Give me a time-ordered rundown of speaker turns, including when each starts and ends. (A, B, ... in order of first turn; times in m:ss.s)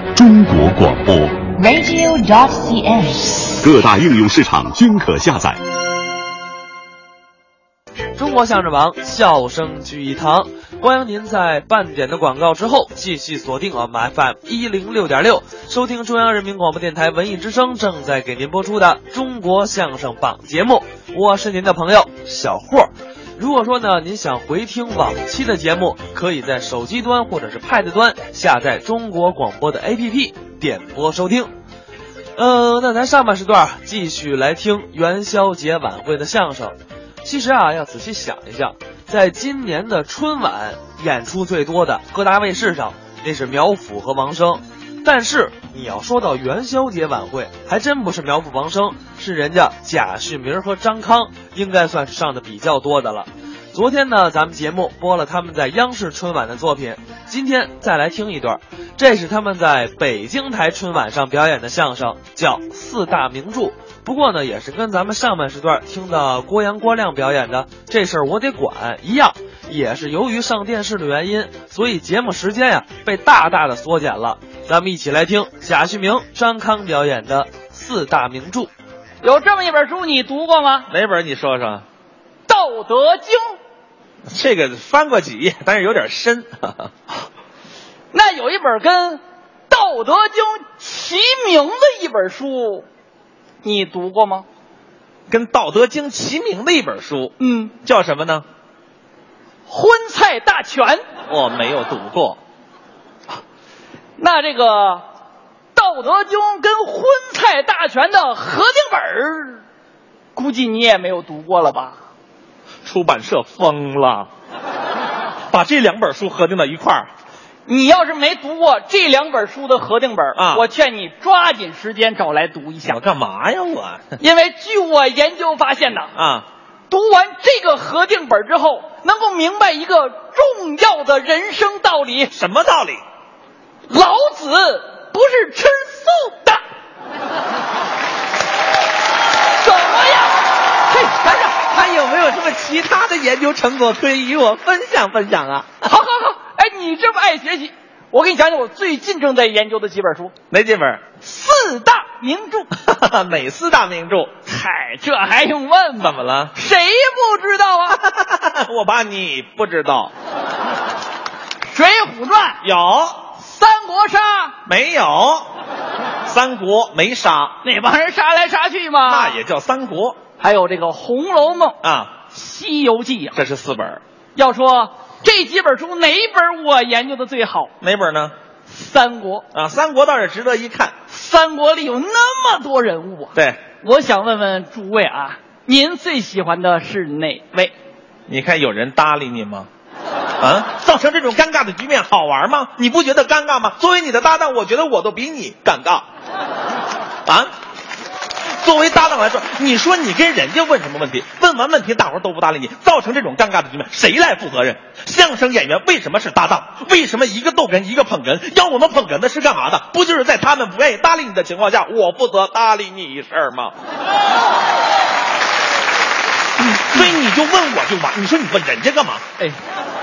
0:00.1-0:01.5 A
0:01.5-0:03.5 B
0:03.6-0:05.6 A
0:08.2-0:31.5 C
0:32.4-1:18.7 C
1:19.2-1:20.9 D
1:20.9-1:21.8 E
1:22.5-1:23.6 D
1:24.3-1:26.9 E
1:28.1-1:32.9 D
1:33.6-1:34.4 D
1:35.3-1:38.4 E
1:37.4-1:37.7 D
1:39.7-1:41.0 D
1:41.3-1:42.4 E
1:44.2-1:45.0 D
1:45.7-1:49.6 D
1:50.3-1:52.0 D
1:52.8-1:54.3 E
1:55.5-1:57.1 E
1:57.6-2:03.0 D
2:00.4-2:00.6 E
2:02.9-2:04.2 E
2:04.2-2:06.1 D
2:06.1-2:06.5 E
2:06.9-2:12.3 D
2:12.3-2:13.0 E
2:13.9-2:16.6 D
2:19.6-2:21.6 D
2:21.5-2:25.9 E
2:25.8-2:30.3 D
2:30.5-2:31.0 E
2:31.2-2:32.7 D
2:32.8-2:34.3 E
2:34.4-2:38.0 D
2:36.0-2:36.5 E
2:38.0-2:40.1 E
2:41.7-2:42.6 D
2:42.6-2:43.2 E
2:43.4-2:44.5 D
2:44.6-2:45.5 E
2:46.2-2:47.6 E
2:47.6-2:49.4 D
2:49.0-2:50.2 E
2:50.4-2:51.8 D
2:51.8-2:52.1 E
2:52.3-2:53.4 D
2:53.3-2:54.0 E
2:54.3-2:57.7 D
2:57.8-2:58.3 E
2:58.7-2:59.4 D
2:59.5-3:00.9 E
3:01.1-3:07.7 D
3:03.3-3:03.6 E
3:08.3-3:09.7 E
3:10.4-3:16.0 E
3:18.6-3:33.8 E
3:36.6-3:39.2 E